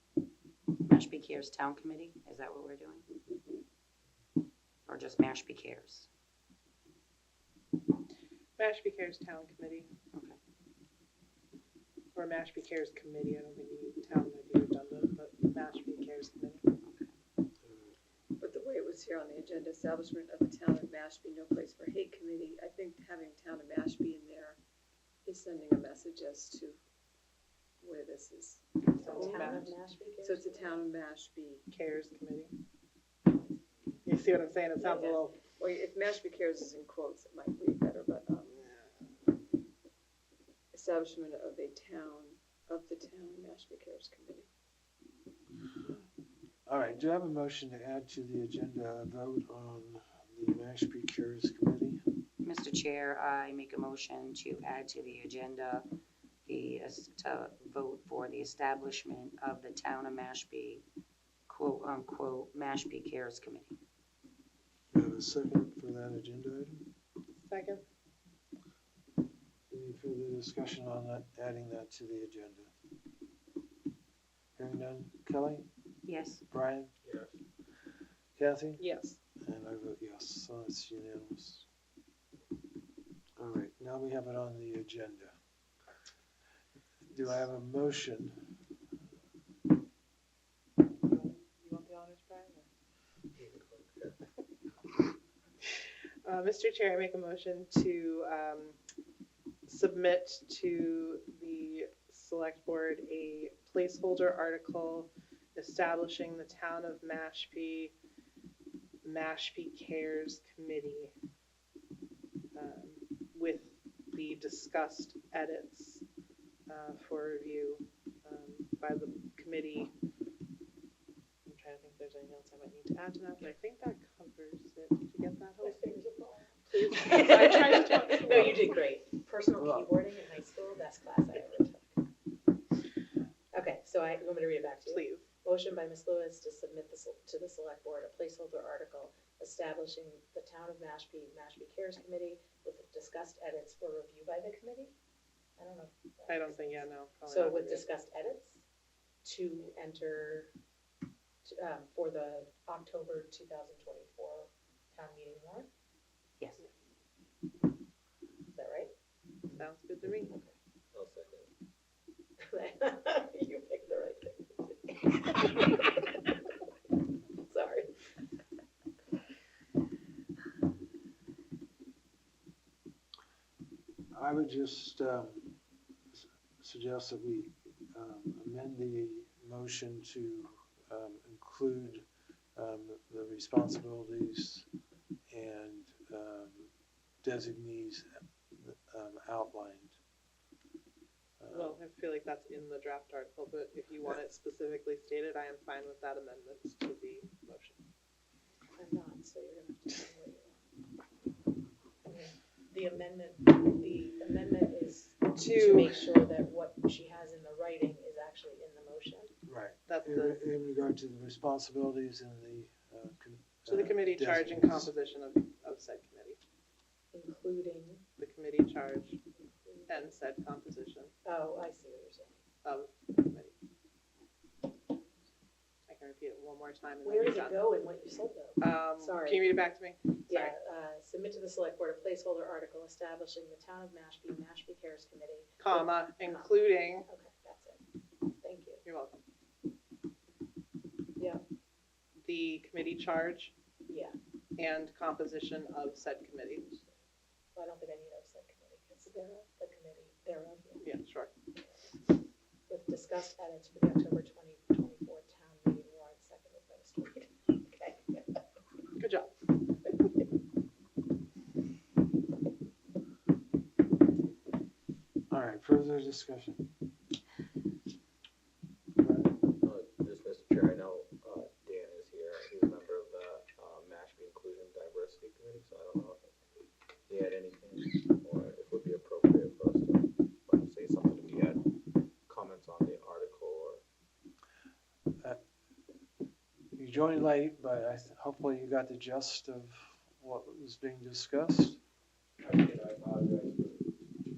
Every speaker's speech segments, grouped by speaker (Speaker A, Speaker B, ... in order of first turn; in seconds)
Speaker A: 0.8-3.1, 4.9-6.1, 10.1-10.4, 16.8-17.1, 52.4-55.9, 56.5-60.9, 61.5-63.8, 76.1-76.4
Speaker B: 8.6-9.9, 12.2-16.6, 28.9-29.7, 31.7-32.5, 34.0-35.4, 67.4-67.8, 78.8-79.2, 91.0-92.7, 96.2-98.8, 99.7-107.9, 109.0-111.1, 112.5-116.0, 116.7-119.9, 121.5-125.8, 126.7-128.8, 134.9-135.3, 146.3-147.9, 159.5-160.3, 191.5-197.8, 205.3-206.1, 209.9-210.4, 213.7-216.4, 218.2-219.2, 219.9-221.1, 222.6-223.5, 225.9-227.6, 228.6-230.6, 235.6-237.1, 238.8-239.2, 242.2-243.5, 244.6-246.7, 250.8-251.3, 259.0-259.3
Speaker C: 18.4-24.6, 25.2-26.8, 27.8-29.7, 30.2-31.6, 34.8-38.8, 40.7-44.5, 249.1-249.5
Speaker D: 29.0-30.8, 125.6-131.9, 133.5-144.9, 145.6-148.6, 149.2-150.5, 151.4-155.7, 158.5-158.9, 160.1-160.5, 162.4-166.4, 167.4-168.1, 198.8-200.6, 202.0-209.3, 217.1-218.0, 219.6-220.0, 221.2-222.4, 227.0-229.6, 230.3-237.8, 238.4-238.8, 241.2-241.4, 243.9-244.2, 247.6-250.8, 252.7-258.4
Speaker E: 46.7-52.0, 64.9-66.8, 69.7-72.7, 74.6-75.7, 76.5-76.9, 78.4-78.8, 79.4-81.7, 83.4-85.3, 87.1-88.3, 129.6-130.0, 174.1-175.5, 176.1-182.1, 182.6-184.7, 185.3-186.7, 187.2-190.0, 191.4-191.8, 209.5-214.9, 265.3-266.6, 269.0-269.4, 286.8-291.8
Speaker F: 77.0-77.3, 93.4-94.2, 160.9-161.5, 269.6-276.4, 277.1-281.7, 282.3-283.8, 292.4-293.8